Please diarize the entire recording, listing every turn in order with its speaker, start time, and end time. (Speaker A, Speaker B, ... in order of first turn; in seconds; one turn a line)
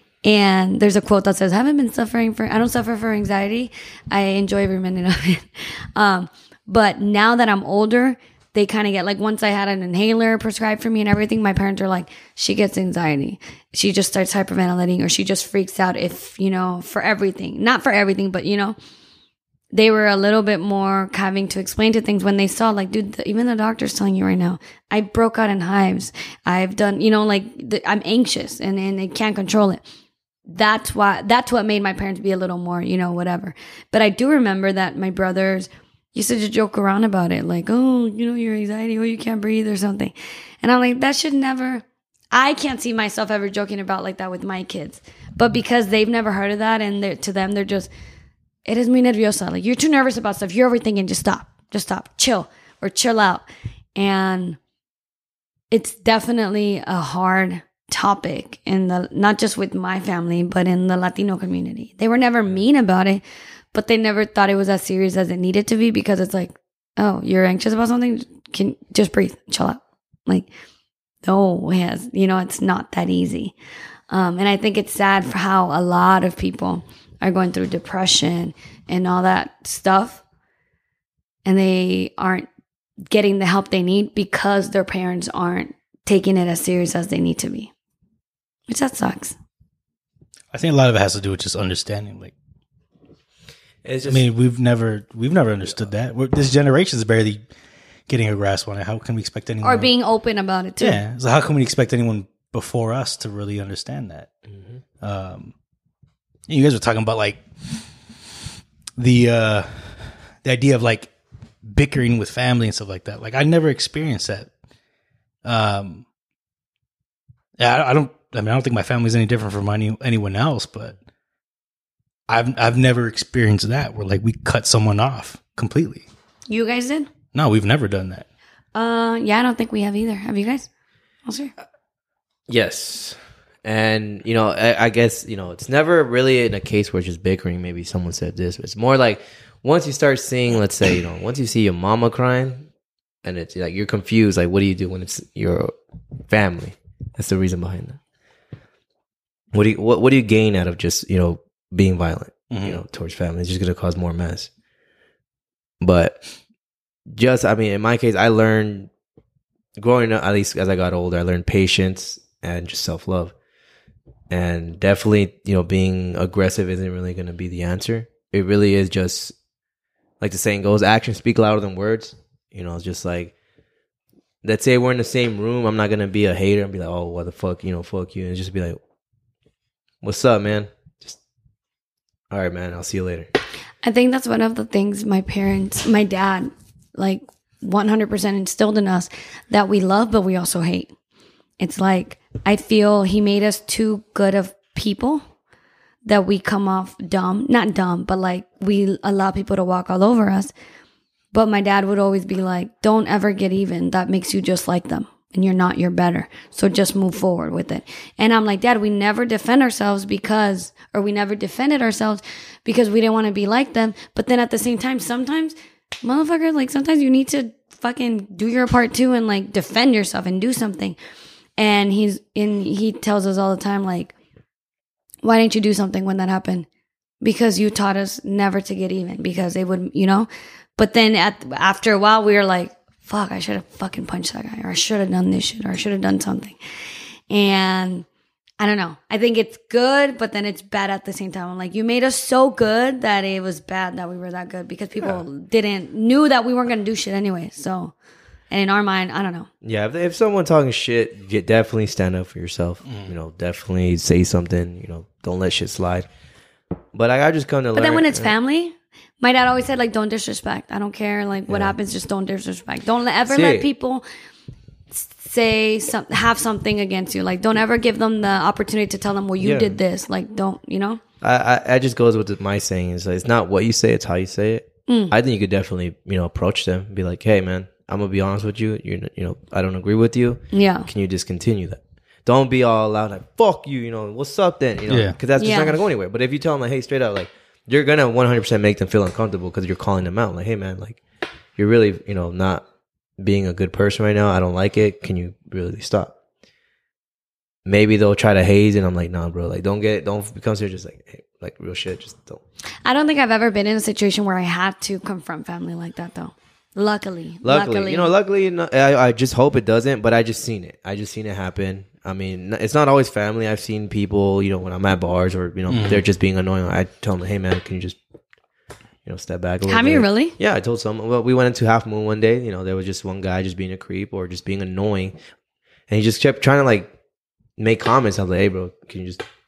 Speaker A: 0.2-18.8
Speaker A: 19.7-29.8
Speaker A: 30.5-47.9
Speaker A: 48.6-54.6
Speaker A: 55.7-63.2
Speaker A: 63.7-70.5
Speaker A: 71.2-73.5
Speaker A: 74.1-80.2
Speaker A: 81.4-82.5
Speaker A: 83.1-87.7
Speaker A: 88.7-89.3
Speaker B: 90.5-92.3
Speaker C: 93.8-94.2
Speaker B: 94.1-97.4
Speaker B: 98.1-99.9
Speaker A: 99.6-101.0
Speaker B: 100.8-104.3
Speaker B: 105.0-105.5
Speaker B: 106.5-107.4
Speaker B: 109.0-111.1
Speaker B: 111.6-114.5
Speaker B: 115.4-116.0
Speaker B: 117.6-121.0
Speaker B: 122.3-126.0
Speaker A: 126.5-127.1
Speaker B: 127.3-128.2
Speaker A: 128.7-130.7
Speaker A: 131.2-131.5
Speaker C: 132.5-142.7
Speaker C: 143.2-145.7
Speaker C: 146.3-148.0
Speaker C: 149.5-154.5
Speaker B: 152.5-152.8
Speaker C: 155.8-156.2
Speaker C: 157.1-158.9
Speaker C: 159.8-163.3
Speaker C: 164.3-169.3
Speaker C: 170.2-173.3
Speaker C: 174.4-178.8
Speaker C: 180.0-181.2
Speaker C: 182.3-183.3
Speaker A: 183.8-190.9
Speaker A: 191.6-195.2
Speaker A: 196.0-200.5
Speaker A: 201.3-221.0
Speaker A: 221.6-224.1
Speaker A: 225.2-226.7
Speaker A: 227.2-236.6
Speaker A: 237.3-238.1
Speaker A: 238.6-247.9
Speaker A: 248.5-249.5
Speaker C: 249.6-256.1
Speaker B: 252.8-253.1
Speaker C: 256.9-258.3
Speaker A: 257.7-264.0
Speaker C: 261.5-261.8
Speaker C: 263.3-263.7
Speaker A: 264.9-271.0
Speaker C: 269.4-269.8
Speaker C: 271.2-291.0
Speaker A: 274.9-275.1
Speaker A: 280.5-280.9
Speaker B: 284.9-285.2
Speaker A: 285.4-285.8
Speaker C: 291.6-292.6
Speaker C: 293.2-296.1
Speaker C: 297.6-302.4
Speaker A: 302.8-308.1
Speaker C: 307.4-318.0
Speaker B: 315.7-316.0
Speaker C: 319.0-325.1
Speaker A: 319.6-320.4
Speaker C: 325.9-326.9
Speaker C: 327.6-329.2